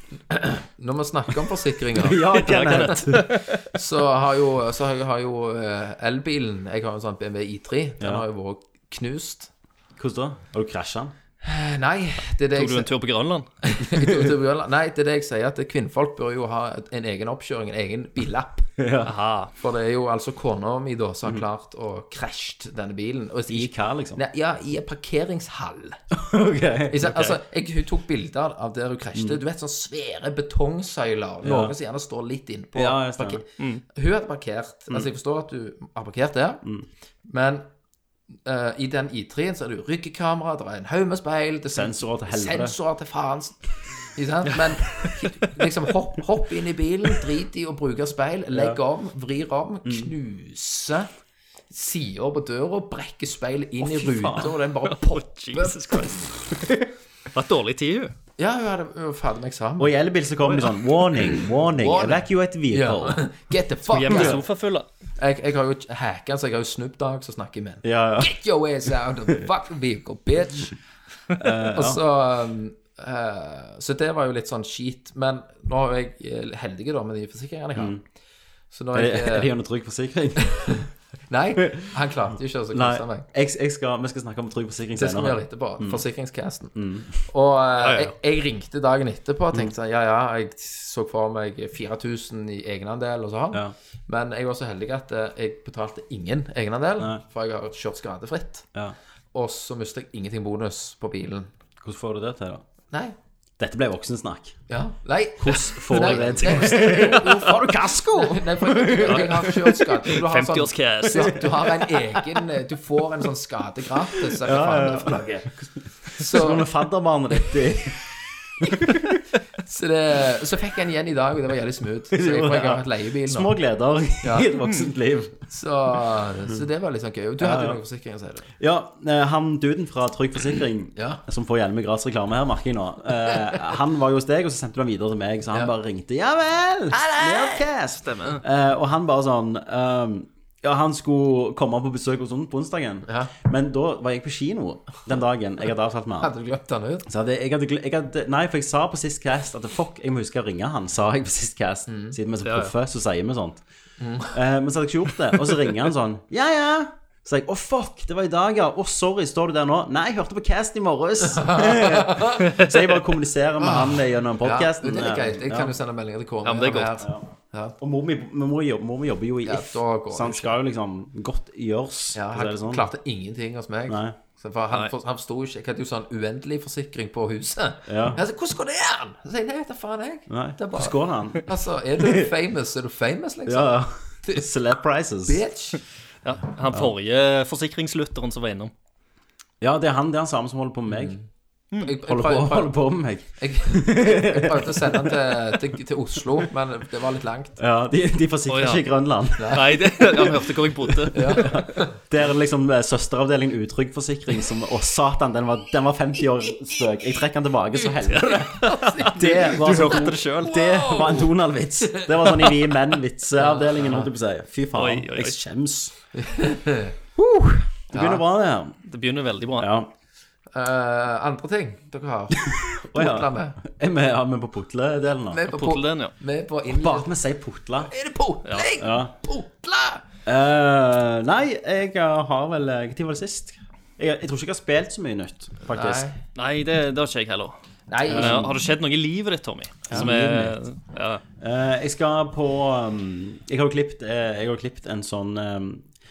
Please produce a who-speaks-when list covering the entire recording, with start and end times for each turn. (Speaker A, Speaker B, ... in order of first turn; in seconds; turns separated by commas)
Speaker A: 0.3-2.9, Speaker B: 1.9-3.3, Speaker C: 2.3-3.6, Speaker A: 3.7-9.5, Speaker B: 10.0-11.1, Speaker A: 11.4-12.9, Speaker C: 12.6-13.5, Speaker A: 13.6-18.7, Speaker B: 18.8-19.1, Speaker C: 19.0-19.5, Speaker A: 19.6-26.0, Speaker B: 23.5-24.2, Speaker B: 26.1-27.1, Speaker A: 26.9-36.6, Speaker C: 27.1-27.4, Speaker B: 31.4-31.7, Speaker B: 32.8-33.4, Speaker C: 33.6-33.8, Speaker A: 37.3-37.6, Speaker A: 38.5-43.6, Speaker B: 41.8-42.8, Speaker A: 44.1-51.1, Speaker B: 48.5-48.8, Speaker A: 51.7-56.1, Speaker B: 53.8-54.5, Speaker C: 54.8-56.7, Speaker C: 57.3-58.1, Speaker A: 58.4-59.9, Speaker B: 59.8-63.3, Speaker C: 60.5-60.7, Speaker A: 61.8-64.4, Speaker C: 63.9-64.9, Speaker B: 64.1-64.4, Speaker A: 65.2-70.7, Speaker B: 67.8-68.4, Speaker B: 71.4-72.0, Speaker A: 71.7-78.0, Speaker B: 77.8-78.0, Speaker A: 78.7-79.5, Speaker B: 78.9-80.8, Speaker A: 80.4-83.3, Speaker B: 81.6-81.9, Speaker B: 82.7-86.0, Speaker A: 85.0-98.7, Speaker B: 86.8-87.3, Speaker C: 87.8-88.1, Speaker A: 99.3-101.5, Speaker B: 101.8-102.7, Speaker B: 103.6-104.6, Speaker A: 104.7-116.7, Speaker B: 105.4-110.0, Speaker C: 109.0-109.5, Speaker C: 110.1-111.5, Speaker B: 111.1-112.2, Speaker B: 114.3-115.5, Speaker B: 116.2-118.0, Speaker B: 118.6-119.2, Speaker A: 119.6-123.5, Speaker B: 122.1-125.4, Speaker A: 124.2-124.5, Speaker A: 125.5-128.5, Speaker B: 127.4-127.8, Speaker B: 128.6-146.3, Speaker A: 131.0-131.2, Speaker A: 136.9-137.6, Speaker C: 138.0-138.4, Speaker A: 143.1-143.3, Speaker A: 146.2-147.1, Speaker B: 147.1-153.6, Speaker A: 151.9-152.2, Speaker C: 152.4-152.7, Speaker A: 154.0-154.3, Speaker B: 154.3-165.7, Speaker A: 161.3-162.6, Speaker A: 163.6-167.8, Speaker C: 166.4-167.0, Speaker B: 167.0-167.3, Speaker B: 167.8-172.9, Speaker A: 169.4-170.5, Speaker A: 172.1-184.5, Speaker B: 173.9-174.2, Speaker B: 177.9-178.2, Speaker B: 180.3-181.4, Speaker B: 182.0-182.3, Speaker B: 183.5-185.4, Speaker A: 185.2-185.8, Speaker C: 186.2-188.7, Speaker B: 189.6-191.2, Speaker A: 190.9-191.2, Speaker A: 191.8-192.8, Speaker B: 192.1-195.6, Speaker A: 193.4-197.6, Speaker B: 197.6-215.9, Speaker C: 198.5-198.8, Speaker C: 199.5-201.6, Speaker A: 201.1-201.9, Speaker C: 208.1-211.1, Speaker A: 208.2-211.2, Speaker A: 211.9-212.5, Speaker A: 213.4-214.1, Speaker C: 214.7-215.4, Speaker A: 216.2-216.9, Speaker B: 217.2-218.8, Speaker A: 217.9-218.2, Speaker C: 218.9-219.7, Speaker B: 219.6-219.9, Speaker A: 220.5-223.6, Speaker B: 222.5-225.4, Speaker A: 225.3-227.1, Speaker C: 225.5-226.1, Speaker B: 226.7-227.9, Speaker A: 227.9-230.0, Speaker B: 228.8-229.1, Speaker B: 230.3-236.1, Speaker A: 235.7-236.2, Speaker C: 236.4-237.6, Speaker A: 237.9-238.6, Speaker C: 238.1-241.2, Speaker B: 238.1-238.5, Speaker B: 239.9-240.6, Speaker B: 241.4-245.9